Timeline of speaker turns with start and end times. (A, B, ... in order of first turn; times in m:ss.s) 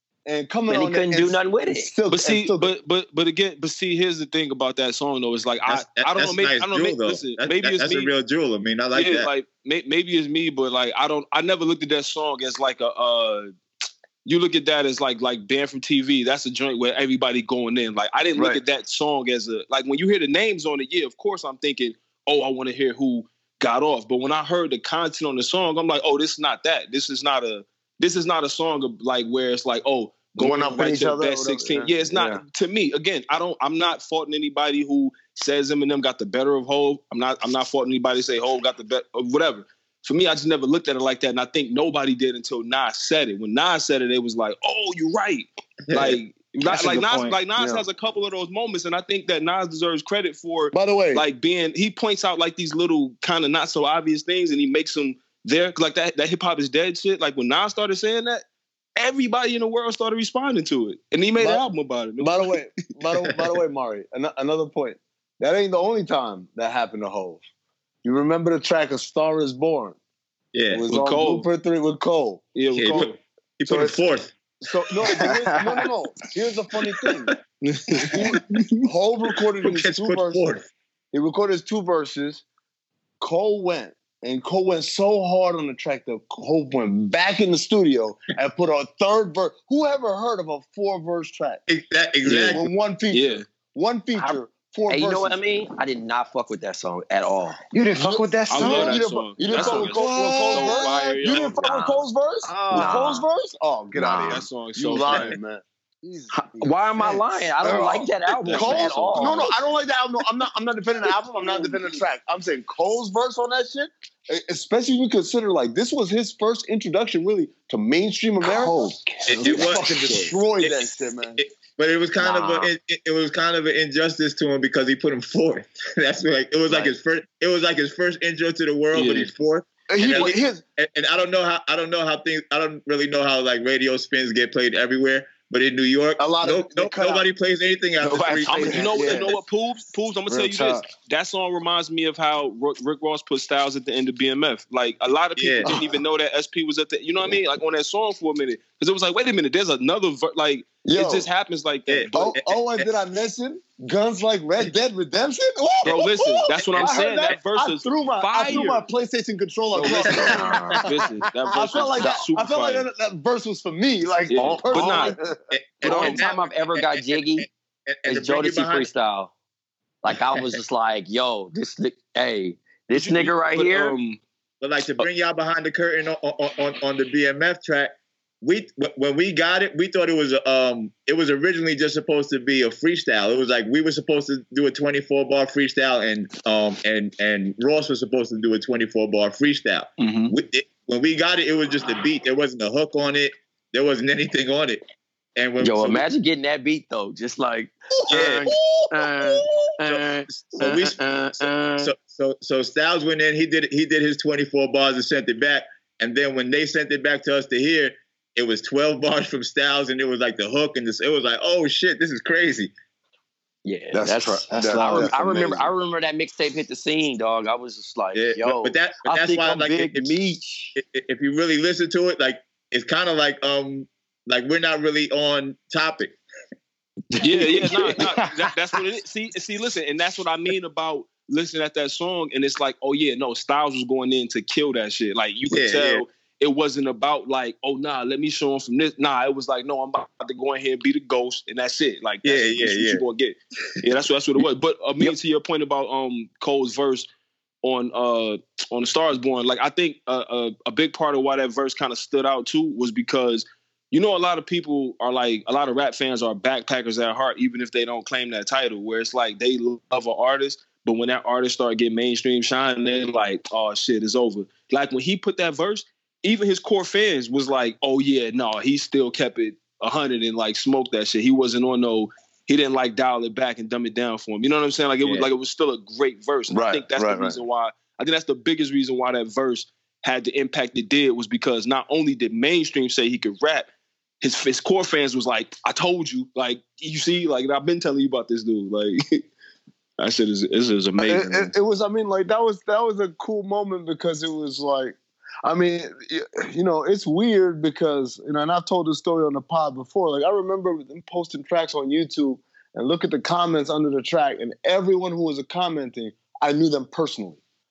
0:00.2-0:02.7 A
0:00.7-0:01.9 B
0:02.1-0:08.1 C
0:05.7-0:09.3 D
0:08.9-0:13.5 C
0:14.2-0:58.4 C
0:30.4-0:32.4 A
0:45.9-0:46.2 D
0:46.8-0:47.2 D
0:50.7-0:51.2 A
0:59.0-1:02.6 C
1:01.4-1:01.6 A
1:02.2-1:07.4 A
1:03.2-1:03.5 D
1:08.0-1:10.0 A
1:10.5-1:10.9 D
1:10.7-1:12.5 A
1:10.9-1:11.5 C
1:12.5-1:13.1 C
1:12.7-1:14.3 D
1:13.7-1:14.0 A
1:14.6-1:17.3 A
1:17.7-1:18.1 C
1:18.1-1:20.4 A
1:19.6-1:20.7 D
1:21.1-1:22.4 A
1:23.2-1:31.6 A
1:31.7-1:32.7 D
1:32.2-1:35.4 A
1:33.1-1:33.4 C
1:34.2-1:37.6 B
1:37.7-1:40.7 E
1:38.1-2:01.4 A
1:38.5-1:41.5 C
1:41.3-1:42.0 B
1:42.4-1:43.2 E
1:42.7-1:43.2 B
1:43.9-1:44.4 B
1:44.2-1:45.4 C
1:46.3-1:49.5 B
1:48.4-1:49.4 C
1:58.5-1:59.5 E
1:59.2-2:00.1 D
2:00.0-2:00.3 C
2:01.4-2:18.8 D
2:02.2-2:02.7 B
2:06.7-2:06.9 B
2:08.9-2:09.3 C
2:09.9-2:10.6 A
2:16.2-2:17.3 A
2:18.0-2:19.2 E
2:18.5-2:19.3 A
2:18.5-2:32.2 C
2:20.3-2:20.8 A
2:25.4-2:25.8 D
2:25.6-2:25.9 A
2:30.8-2:31.3 A
2:31.9-2:32.9 D
2:32.1-2:45.3 A
2:35.8-2:38.8 C
2:39.7-2:42.9 C
2:39.8-2:40.8 B
2:41.8-2:42.2 B
2:44.3-2:45.2 C
2:44.3-2:45.2 B
2:45.5-2:48.9 D
2:45.8-2:46.2 C
2:45.8-2:47.5 B
2:48.0-2:49.3 B
2:50.0-2:53.9 B
2:52.9-2:54.2 C
2:54.6-3:14.8 D
3:10.0-3:10.3 C
3:15.4-3:16.0 D
3:15.6-3:21.9 B
3:18.1-3:32.7 D
3:33.6-3:40.8 B
3:33.9-3:35.6 A
3:34.5-3:35.5 E
3:38.1-3:40.2 D
3:40.7-3:46.2 D
3:47.1-3:47.9 B
3:47.2-4:07.1 C
3:55.5-3:56.0 D
4:02.2-4:03.0 D
4:07.6-4:43.7 C
4:35.0-4:35.3 D
4:36.5-4:37.4 A
4:44.2-4:49.2 C
4:50.0-4:51.5 C
4:51.0-5:07.4 A